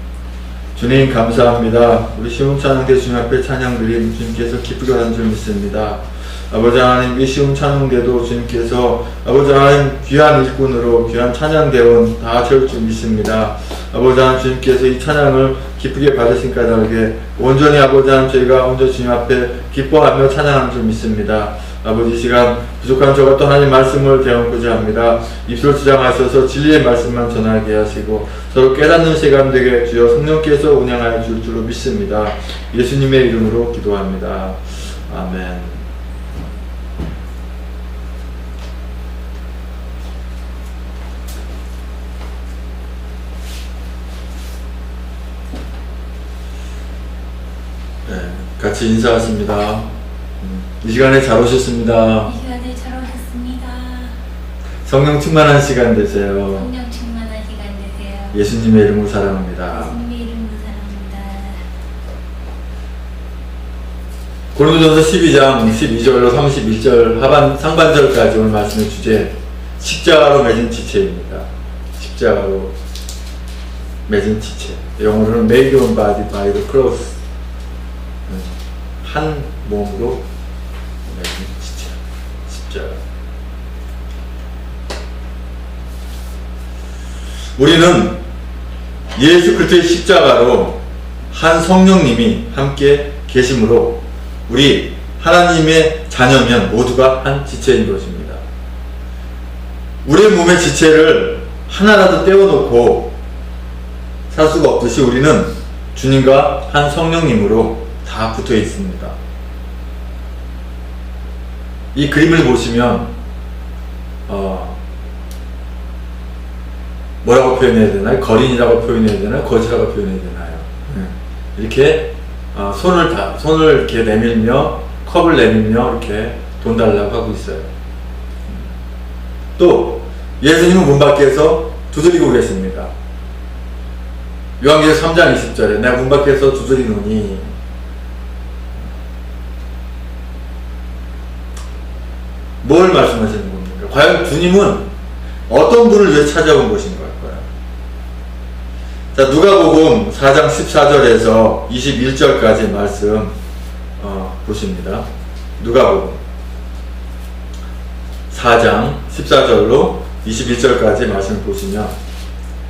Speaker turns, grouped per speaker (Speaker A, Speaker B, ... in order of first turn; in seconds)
Speaker A: 0.7-35.8, 48.0-52.3, 54.9-56.7, 58.3-60.0, 64.5-72.8, 74.1-77.2, 78.3-80.2, 81.0-83.0, 87.6-88.2, 89.1-98.4, 100.0-103.2, 104.3-109.2, 111.9-113.1, 114.3-114.8, 117.2-127.7, 129.6-132.9, 134.6-137.5, 142.6-144.9, 145.5-147.4, 149.1-153.3, 154.0-155.0, 155.6-156.2, 158.3-161.9
Speaker B: 52.2-54.2, 56.5-58.4, 59.7-61.7